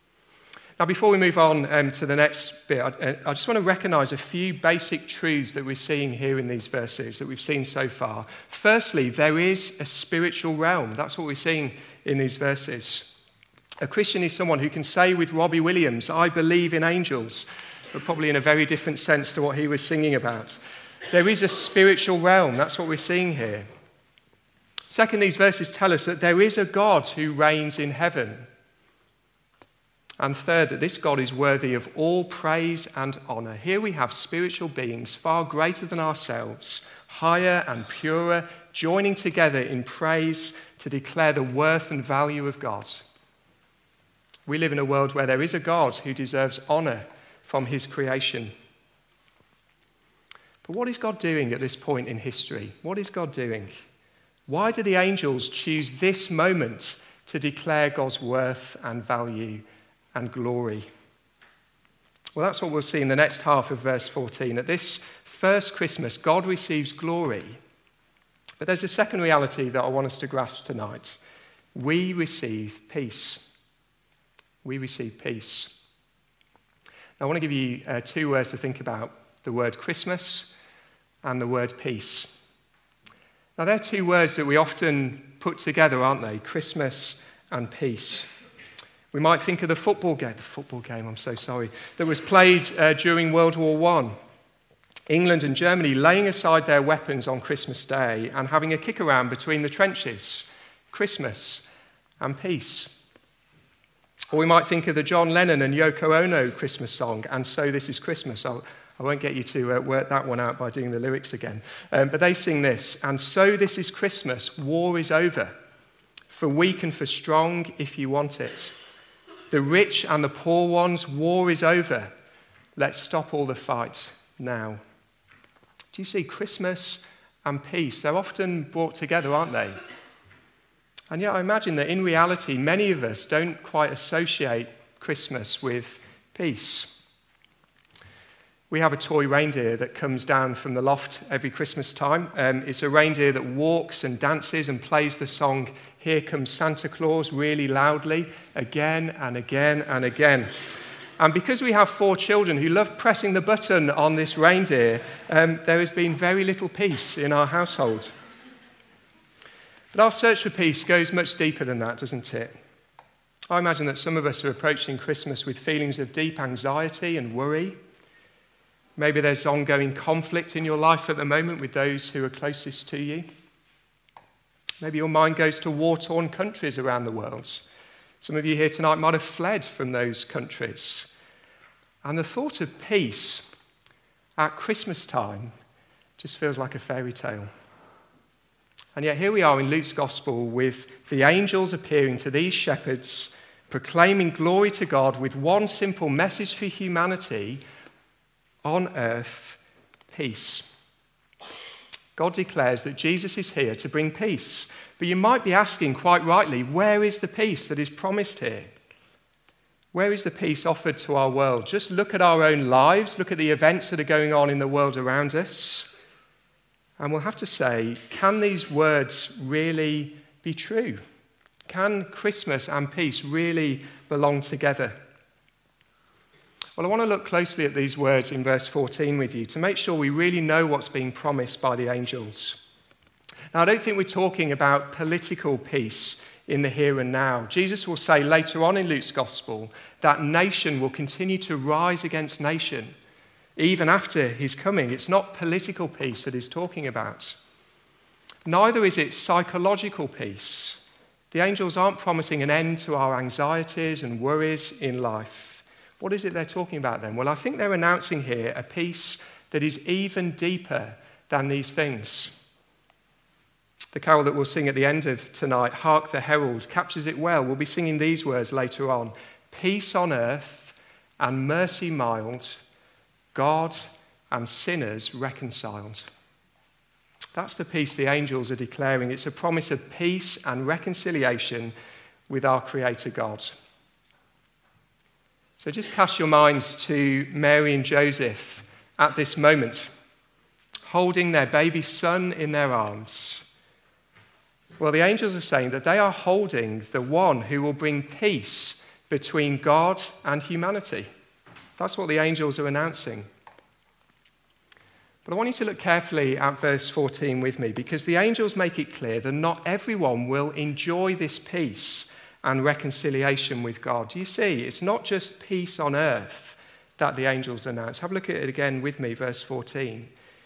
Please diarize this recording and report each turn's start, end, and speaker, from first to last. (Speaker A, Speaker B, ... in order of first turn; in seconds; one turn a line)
Speaker A: 0.8-13.1
Speaker A: 13.8-20.6
Speaker A: 21.1-23.7
Speaker A: 24.9-28.5
Speaker A: 30.2-43.1
Speaker A: 44.5-48.5
Speaker A: 50.6-53.8
Speaker A: 54.5-60.9
Speaker A: 62.3-67.6
Speaker A: 68.6-71.2
Speaker A: 71.8-73.4
Speaker A: 74.6-75.7
Speaker A: 77.2-80.5
Speaker A: 81.2-82.3
Speaker A: 83.6-88.3
Speaker A: 89.1-94.2
Speaker A: 95.1-101.7
Speaker A: 102.2-102.9
Speaker A: 104.3-115.5
Speaker A: 116.3-118.8
Speaker A: 119.5-122.1
Speaker A: 122.8-124.8
Speaker A: 125.9-129.8
Speaker A: 131.1-136.9
Speaker A: 138.7-150.5
Speaker A: 151.2-158.1
Speaker A: 159.9-162.5
Speaker A: 163.5-167.8
Speaker A: 169.0-173.3
Speaker A: 174.8-177.7
Speaker A: 178.2-181.1
Speaker A: 182.0-183.5
Speaker A: 184.4-185.5
Speaker A: 186.2-187.5
Speaker A: 189.0-197.6
Speaker A: 198.6-199.6
Speaker A: 200.1-200.7
Speaker A: 202.2-208.7
Speaker A: 209.9-215.9
Speaker A: 217.0-221.0
Speaker A: 221.7-225.0
Speaker A: 226.8-232.6
Speaker A: 233.5-242.9
Speaker A: 243.6-247.4
Speaker A: 248.4-262.3
Speaker A: 263.9-272.6
Speaker A: 273.3-276.1
Speaker A: 277.3-281.8
Speaker A: 282.3-283.6
Speaker A: 285.6-289.9
Speaker A: 290.9-293.5
Speaker A: 294.8-301.1
Speaker A: 301.8-303.3
Speaker A: 305.2-320.1